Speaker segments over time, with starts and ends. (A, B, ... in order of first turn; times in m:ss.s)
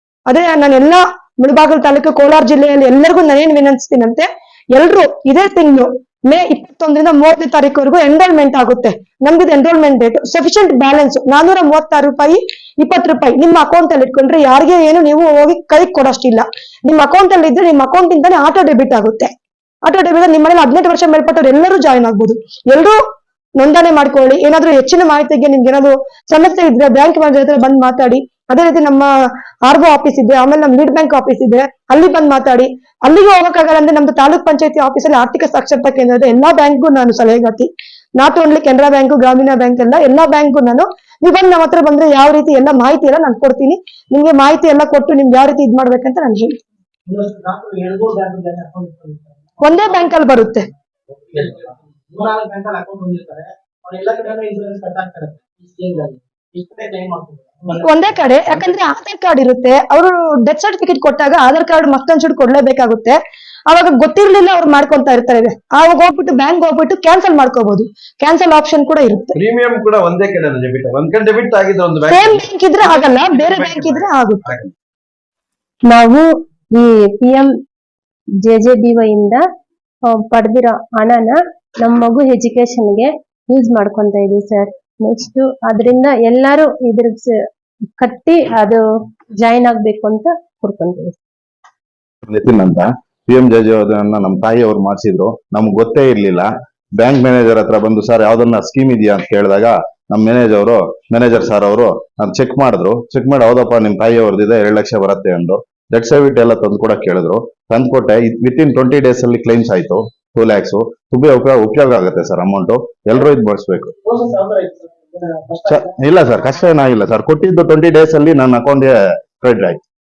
0:00.3-0:19.3 A
0:19.8-0:23.0 A
0:23.6-0:29.1 A
0:29.7-0:46.6 A
0:47.1-0:50.1 B
0:49.6-0:50.7 A
0:51.3-0:58.5 B
0:57.7-1:09.4 A
1:09.3-1:12.4 C
1:12.1-1:14.6 A
1:13.3-1:14.6 C
1:15.9-1:17.5 D
1:18.4-1:19.4 D
1:20.1-1:27.3 D
1:27.9-1:28.8 D
1:29.3-1:31.2 D
1:32.2-1:53.9 E
1:54.0-1:56.0 B
1:55.7-1:59.8 E